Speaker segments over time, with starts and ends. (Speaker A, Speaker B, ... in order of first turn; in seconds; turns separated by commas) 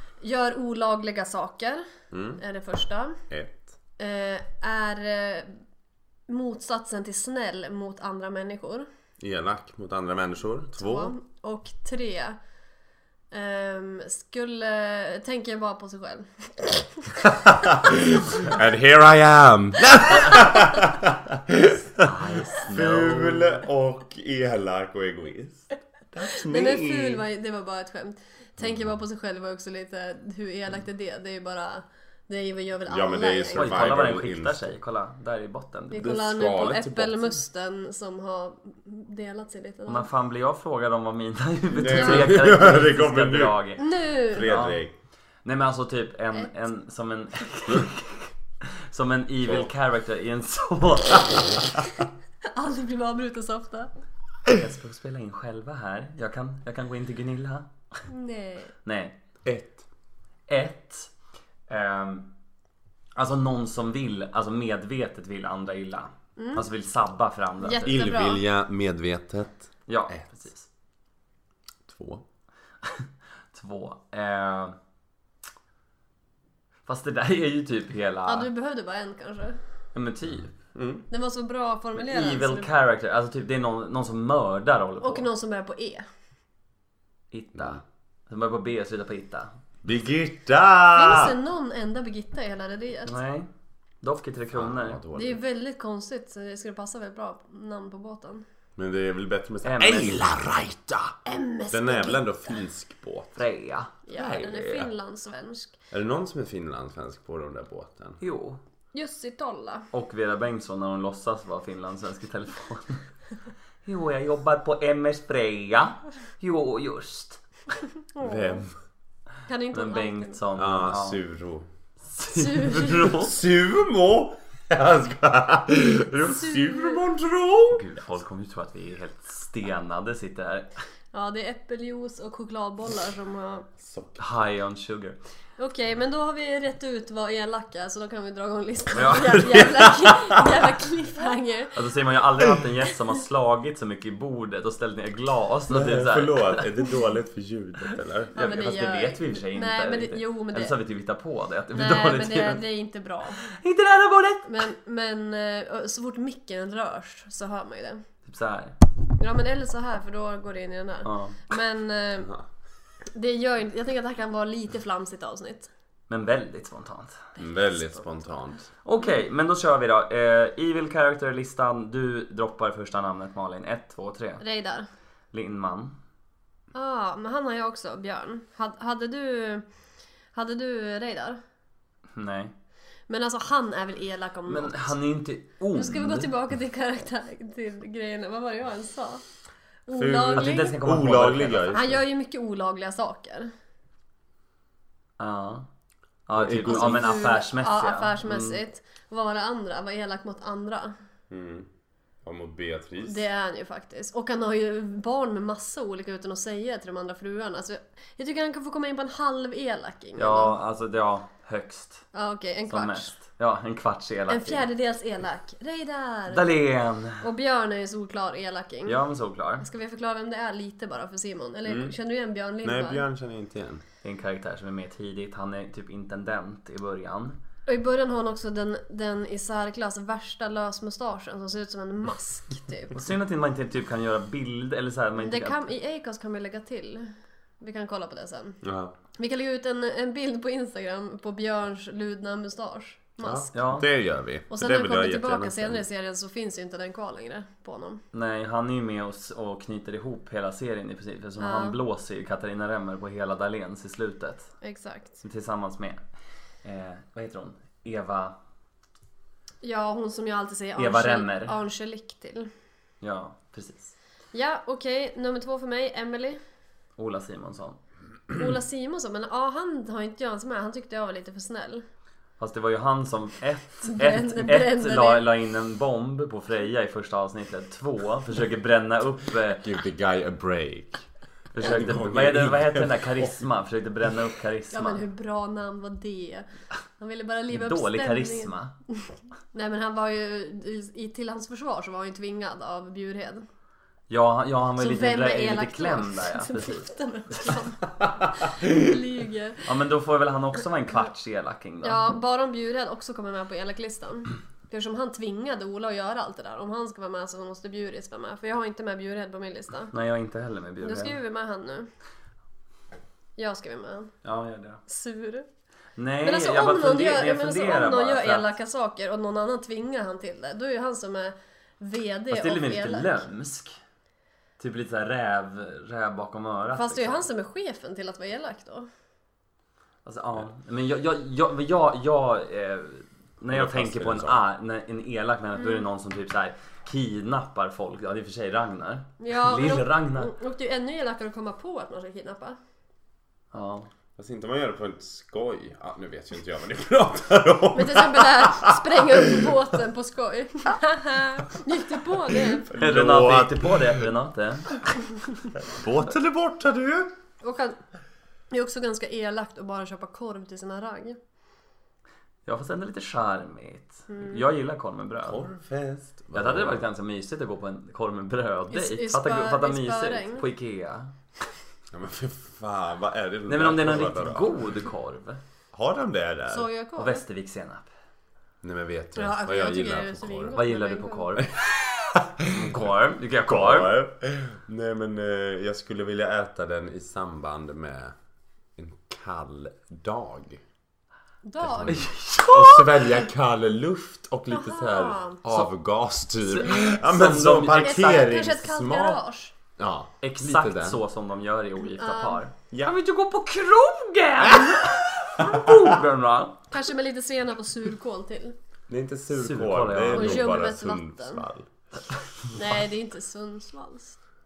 Speaker A: 0.2-1.9, Speaker B: 2.1-2.4, Speaker A: 2.4-3.2, Speaker B: 3.3-3.7, Speaker A: 4.0-5.5, Speaker A: 6.3-8.9, Speaker B: 9.2-11.1, Speaker A: 10.8-12.4, Speaker A: 13.3-17.2, Speaker B: 17.2-22.1, Speaker C: 22.0-23.6, Speaker B: 22.7-27.2, Speaker A: 26.4-34.1, Speaker B: 32.9-34.7, Speaker C: 33.5-36.2, Speaker A: 35.9-40.1, Speaker B: 36.0-37.3, Speaker C: 39.9-44.8, Speaker B: 41.8-43.6, Speaker A: 41.8-42.3, Speaker A: 43.8-44.5, Speaker B: 44.2-44.9, Speaker C: 45.5-51.6, Speaker A: 52.5-53.9, Speaker C: 54.5-57.7, Speaker A: 58.1-58.7, Speaker C: 58.9-59.2, Speaker B: 59.5-59.8, Speaker C: 60.5-61.1, Speaker C: 61.7-62.3, Speaker C: 63.2-67.9, Speaker A: 66.4-66.7, Speaker A: 67.6-68.4, Speaker B: 67.8-70.2, Speaker C: 69.9-70.7, Speaker B: 71.9-72.2, Speaker C: 72.8-74.8, Speaker C: 76.9-78.5, Speaker A: 78.3-79.6, Speaker C: 79.9-80.5, Speaker B: 80.7-81.0, Speaker A: 81.1-82.7, Speaker C: 82.0-85.3, Speaker A: 85.0-86.1, Speaker C: 87.3-89.5, Speaker B: 89.8-91.4, Speaker A: 91.0-93.2, Speaker C: 93.1-93.5, Speaker C: 94.0-95.0, Speaker B: 94.5-95.4, Speaker A: 95.1-98.4, Speaker B: 98.8-101.2, Speaker C: 99.6-100.3, Speaker A: 101.2-102.6, Speaker B: 101.7-103.4, Speaker C: 103.4-104.8, Speaker A: 104.1-105.8, Speaker B: 105.9-108.2, Speaker C: 108.2-108.6, Speaker A: 108.9-109.9, Speaker C: 109.9-113.0, Speaker C: 113.8-117.4, Speaker A: 118.1-118.7, Speaker B: 118.2-118.7, Speaker A: 119.5-120.4, Speaker C: 119.7-121.2, Speaker B: 120.5-121.7, Speaker C: 122.1-123.4, Speaker A: 122.3-123.1, Speaker B: 122.7-127.8, Speaker A: 126.3-127.0, Speaker C: 127.7-130.7, Speaker A: 131.1-133.7, Speaker B: 133.8-134.2, Speaker C: 134.2-135.2, Speaker A: 135.6-141.8, Speaker C: 138.9-139.9, Speaker B: 139.5-140.4, Speaker C: 141.7-146.6, Speaker B: 145.7-148.4, Speaker A: 148.3-150.8, Speaker C: 148.4-152.6, Speaker A: 151.7-153.5, Speaker C: 153.5-154.5, Speaker A: 154.5-158.0, Speaker C: 158.2-158.8, Speaker A: 159.2-162.3, Speaker C: 161.1-161.4, Speaker B: 162.2-162.4, Speaker A: 163.2-165.7, Speaker C: 166.1-167.3, Speaker B: 167.4-168.7, Speaker C: 168.8-174.4, Speaker A: 174.4-174.9, Speaker C: 175.3-176.0, Speaker A: 176.7-179.7, Speaker A: 180.3-181.4, Speaker C: 182.1-182.5, Speaker A: 183.1-185.0, Speaker C: 184.5-186.3, Speaker A: 185.8-189.2, Speaker A: 189.9-190.8, Speaker B: 189.9-192.0, Speaker C: 190.3-191.8, Speaker A: 191.7-193.5, Speaker C: 195.2-195.7, Speaker C: 196.3-198.6, Speaker B: 196.3-197.3, Speaker A: 196.6-200.9, Speaker B: 201.3-201.7, Speaker B: 202.2-203.2, Speaker A: 203.0-210.6, Speaker C: 210.2-212.1, Speaker A: 212.1-213.1, Speaker C: 212.7-214.7, Speaker A: 214.3-216.6, Speaker C: 216.3-217.2, Speaker A: 217.2-219.0, Speaker C: 218.9-219.7, Speaker A: 219.6-223.0, Speaker B: 221.7-221.9, Speaker B: 222.6-223.8, Speaker C: 224.0-227.4, Speaker A: 227.7-233.0, Speaker C: 232.9-235.6, Speaker A: 235.2-238.6, Speaker B: 238.6-238.9, Speaker A: 239.2-243.5, Speaker B: 243.2-245.8, Speaker C: 243.5-243.9, Speaker A: 244.5-248.0, Speaker C: 248.1-254.5, Speaker A: 251.4-251.8, Speaker A: 254.6-255.2, Speaker C: 255.2-256.0, Speaker C: 256.6-258.4, Speaker A: 259.6-262.5, Speaker C: 260.8-261.6, Speaker C: 263.0-263.9, Speaker A: 264.3-266.4, Speaker C: 267.0-267.8, Speaker A: 268.3-271.8, Speaker C: 272.4-279.7, Speaker A: 273.9-275.2, Speaker B: 279.6-283.4, Speaker C: 281.5-285.0, Speaker A: 284.7-286.5, Speaker A: 287.0-293.5, Speaker C: 287.5-288.7, Speaker C: 294.1-297.6, Speaker A: 294.8-299.7, Speaker C: 299.6-302.0, Speaker A: 301.8-309.9, Speaker C: 309.9-311.2, Speaker A: 310.8-311.9, Speaker A: 313.4-314.1, Speaker C: 314.2-314.8, Speaker A: 314.9-315.5, Speaker C: 316.0-318.5, Speaker A: 316.2-323.2, Speaker C: 322.3-323.8, Speaker C: 324.6-327.2, Speaker A: 326.7-328.9, Speaker C: 330.1-340.3, Speaker B: 333.5-334.4, Speaker A: 339.2-342.6, Speaker C: 343.5-343.9, Speaker B: 344.2-349.6, Speaker A: 347.7-352.7, Speaker B: 352.5-354.1, Speaker C: 352.7-354.8, Speaker B: 355.6-357.1, Speaker A: 357.4-357.8, Speaker A: 358.5-361.2, Speaker C: 362.5-365.5, Speaker A: 364.1-364.4, Speaker B: 365.2-366.9, Speaker C: 366.3-371.1, Speaker A: 368.7-370.4, Speaker B: 371.9-374.6, Speaker C: 373.5-375.4, Speaker B: 375.7-376.7, Speaker A: 376.5-377.2, Speaker C: 377.0-377.9, Speaker B: 378.6-380.6, Speaker A: 379.2-381.4, Speaker C: 380.6-381.5, Speaker B: 381.5-382.8, Speaker C: 382.5-383.9, Speaker B: 383.5-388.1, Speaker B: 388.8-390.6, Speaker A: 391.4-392.0, Speaker B: 391.6-399.2, Speaker C: 391.9-393.2, Speaker A: 394.5-395.4, Speaker C: 396.6-398.5, Speaker A: 397.7-399.5, Speaker B: 399.8-401.0, Speaker C: 400.2-406.7, Speaker A: 401.9-402.4, Speaker B: 404.4-405.9, Speaker A: 406.7-408.5, Speaker B: 408.9-411.7, Speaker C: 409.3-410.6, Speaker A: 410.1-411.4, Speaker A: 412.5-414.2